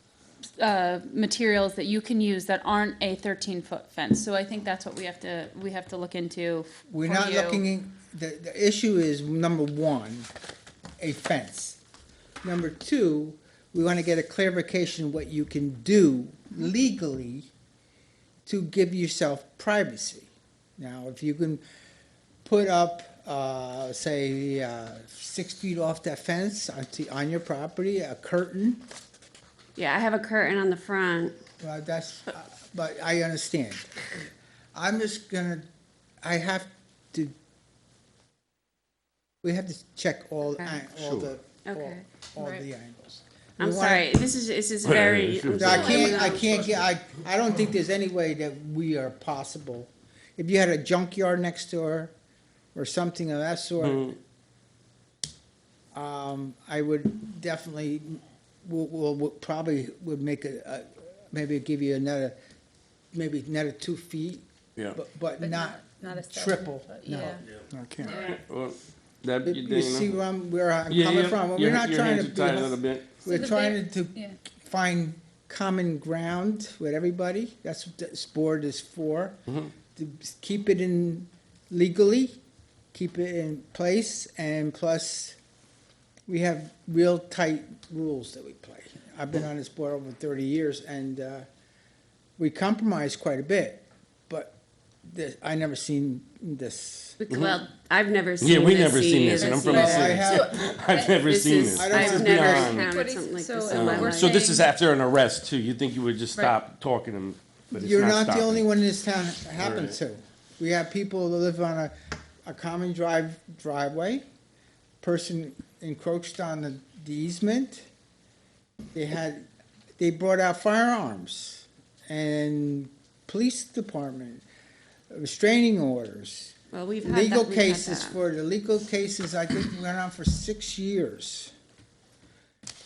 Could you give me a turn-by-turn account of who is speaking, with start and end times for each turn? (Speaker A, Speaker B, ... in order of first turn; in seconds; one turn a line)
Speaker A: 0.6-7.6
Speaker B: 6.9-10.3
Speaker B: 11.0-11.8
Speaker B: 12.4-17.5
Speaker B: 18.4-21.6
Speaker B: 22.4-28.8
Speaker C: 29.8-31.3
Speaker B: 31.6-34.1
Speaker B: 34.7-35.6
Speaker B: 36.2-37.3
Speaker B: 39.4-44.1
Speaker C: 40.5-40.9
Speaker D: 41.0-41.3
Speaker C: 41.6-42.0
Speaker A: 42.4-42.6
Speaker C: 43.6-46.8
Speaker D: 44.8-46.9
Speaker B: 45.6-52.1
Speaker B: 52.7-54.2
Speaker D: 53.8-54.1
Speaker B: 55.9-62.4
Speaker B: 63.1-68.2
Speaker A: 65.4-67.4
Speaker D: 68.0-70.2
Speaker B: 69.4-79.4
Speaker D: 70.9-73.2
Speaker A: 73.2-74.4
Speaker B: 79.9-82.4
Speaker B: 82.9-85.4
Speaker B: 86.3-91.5
Speaker B: 92.4-94.5
Speaker B: 95.1-97.2
Speaker C: 97.2-100.1
Speaker D: 97.3-97.6
Speaker D: 98.4-103.0
Speaker A: 99.2-101.2
Speaker B: 99.7-100.5
Speaker C: 101.2-104.4
Speaker B: 101.7-102.7
Speaker A: 102.3-104.7
Speaker D: 103.6-108.6
Speaker B: 107.7-111.9
Speaker D: 109.5-110.0
Speaker B: 112.4-114.2
Speaker B: 115.0-117.9
Speaker B: 118.9-119.4
Speaker B: 120.0-124.4
Speaker B: 125.1-131.5
Speaker C: 126.7-128.2